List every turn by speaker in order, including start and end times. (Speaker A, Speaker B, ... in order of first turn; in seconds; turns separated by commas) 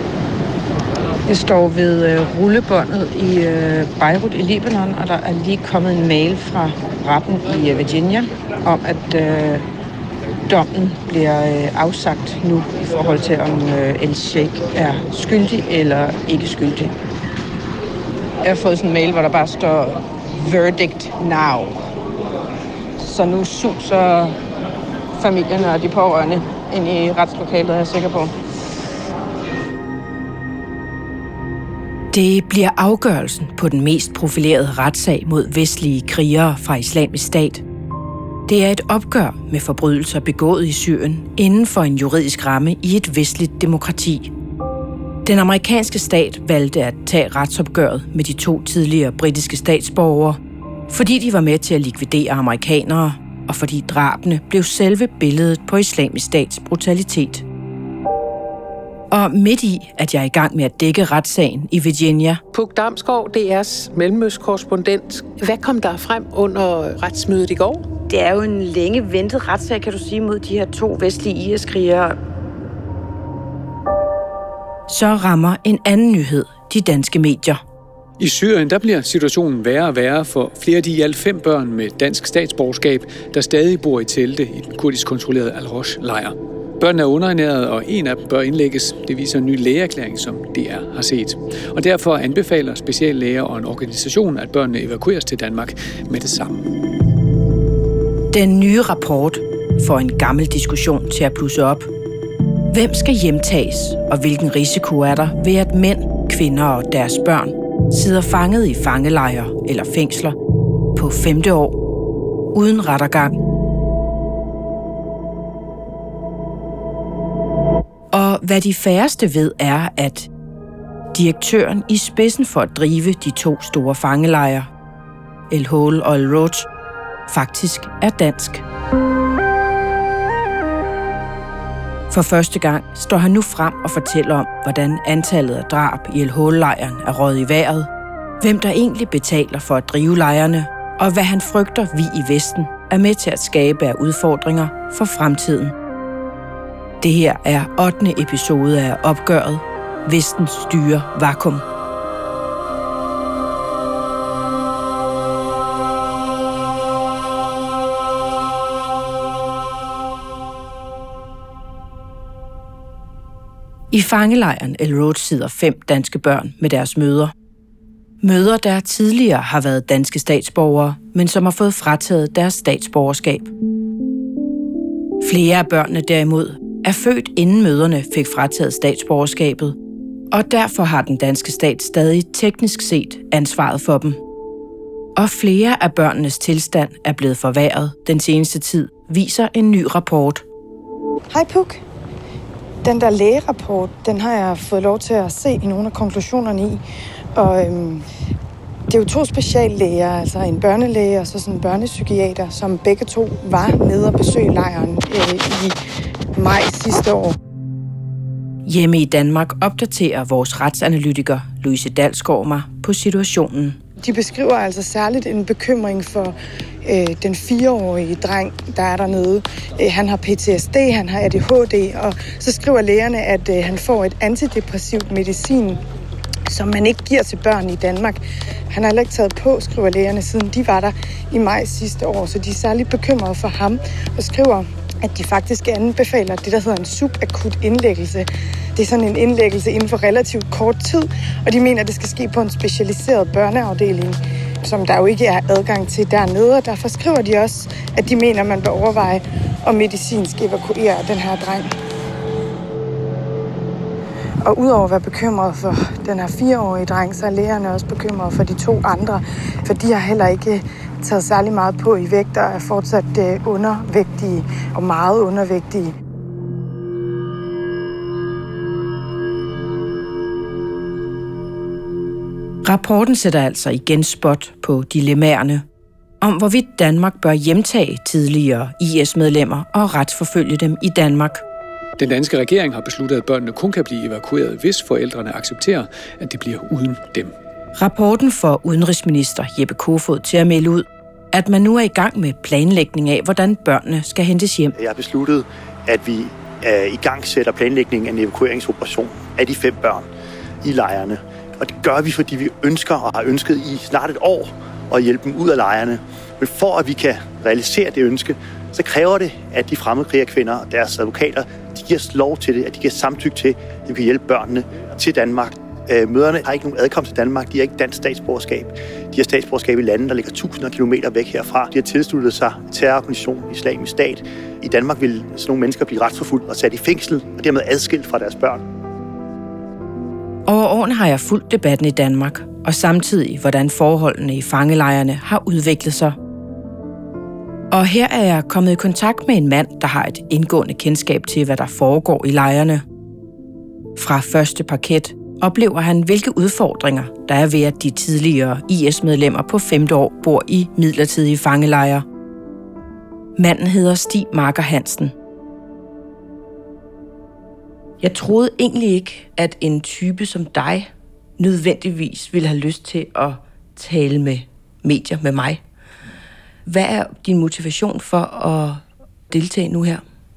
Speaker A: 1.3-9.7, Speaker A: 10.5-16.9, Speaker A: 18.4-21.9, Speaker A: 23.0-24.4, Speaker A: 25.2-28.3, Speaker B: 32.1-37.6, Speaker B: 38.5-44.3, Speaker B: 45.2-57.5, Speaker B: 59.1-62.4, Speaker C: 62.5-67.9, Speaker B: 68.1-72.2, Speaker B: 74.9-77.6, Speaker D: 78.2-96.6, Speaker B: 98.3-101.9, Speaker B: 102.7-110.4, Speaker B: 111.0-111.8, Speaker B: 112.5-113.4, Speaker B: 118.1-120.3, Speaker B: 121.1-124.7, Speaker B: 125.5-126.7, Speaker B: 127.3-128.6, Speaker B: 132.1-137.9, Speaker B: 138.4-145.8, Speaker B: 147.0-151.7, Speaker B: 163.9-167.3, Speaker B: 168.2-173.5, Speaker B: 175.2-179.8, Speaker B: 180.3-184.2, Speaker B: 185.2-190.4, Speaker E: 191.3-191.8, Speaker E: 192.8-196.8, Speaker E: 197.4-198.0, Speaker E: 198.9-205.8, Speaker E: 206.4-207.4, Speaker B: 208.7-213.8, Speaker E: 214.0-225.8, Speaker E: 226.5-251.7, Speaker E: 254.4-265.9, Speaker B: 272.6-275.6, Speaker B: 276.2-281.4, Speaker D: 282.0-287.3, Speaker B: 287.8-294.8, Speaker F: 294.8-300.1, Speaker F: 300.6-328.6, Speaker B: 330.5-336.2, Speaker B: 337.7-342.8, Speaker B: 344.0-352.1, Speaker B: 353.4-355.1, Speaker B: 358.0-365.6, Speaker B: 366.7-370.0